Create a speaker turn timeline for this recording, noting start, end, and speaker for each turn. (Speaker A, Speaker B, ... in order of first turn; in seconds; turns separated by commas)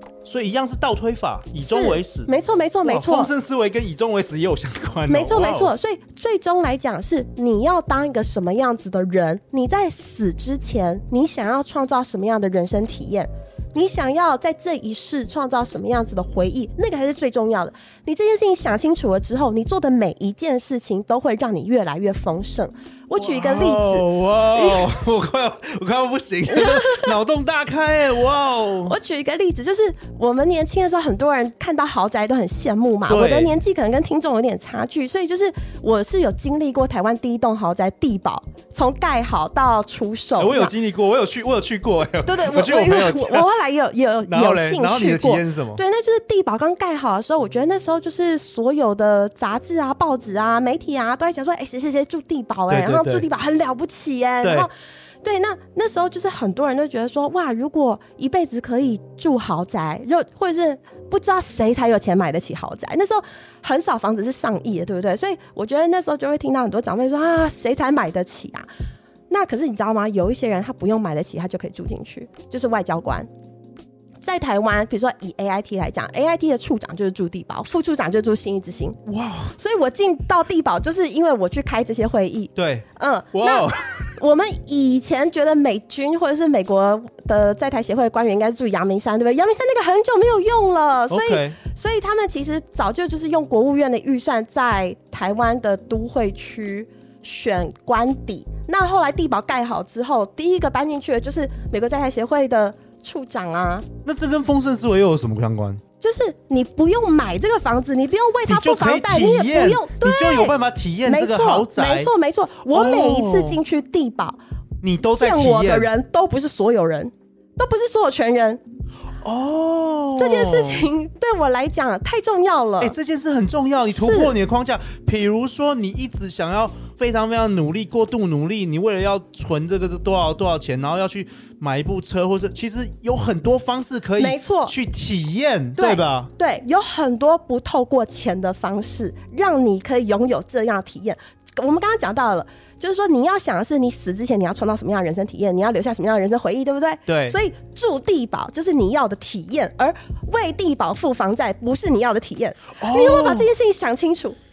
Speaker A: 0.2-2.3, Speaker B: 1.6-3.3, Speaker A: 2.8-5.7, Speaker B: 5.1-24.8, Speaker A: 23.2-28.9, Speaker B: 26.5-27.1, Speaker B: 28.9-40.7, Speaker A: 33.1-33.5, Speaker A: 40.4-43.5, Speaker B: 42.2-54.7, Speaker A: 44.2-45.8, Speaker A: 52.7-53.2, Speaker A: 54.4-54.7, Speaker B: 55.2-68.7, Speaker B: 69.3-73.3, Speaker B: 74.2-79.0, Speaker A: 79.0-79.5, Speaker B: 79.5-103.8, Speaker A: 82.5-84.1, Speaker A: 91.1-91.6, Speaker A: 104.0-105.8, Speaker B: 106.0-110.5, Speaker A: 108.5-112.1, Speaker B: 111.0-114.4, Speaker A: 112.7-113.6, Speaker A: 114.8-115.9, Speaker B: 115.2-118.6, Speaker A: 119.2-120.8, Speaker B: 120.2-123.0, Speaker A: 122.8-136.3, Speaker B: 123.9-124.3, Speaker B: 134.2-134.7, Speaker B: 135.8-154.4, Speaker A: 147.1-147.4, Speaker A: 152.8-153.5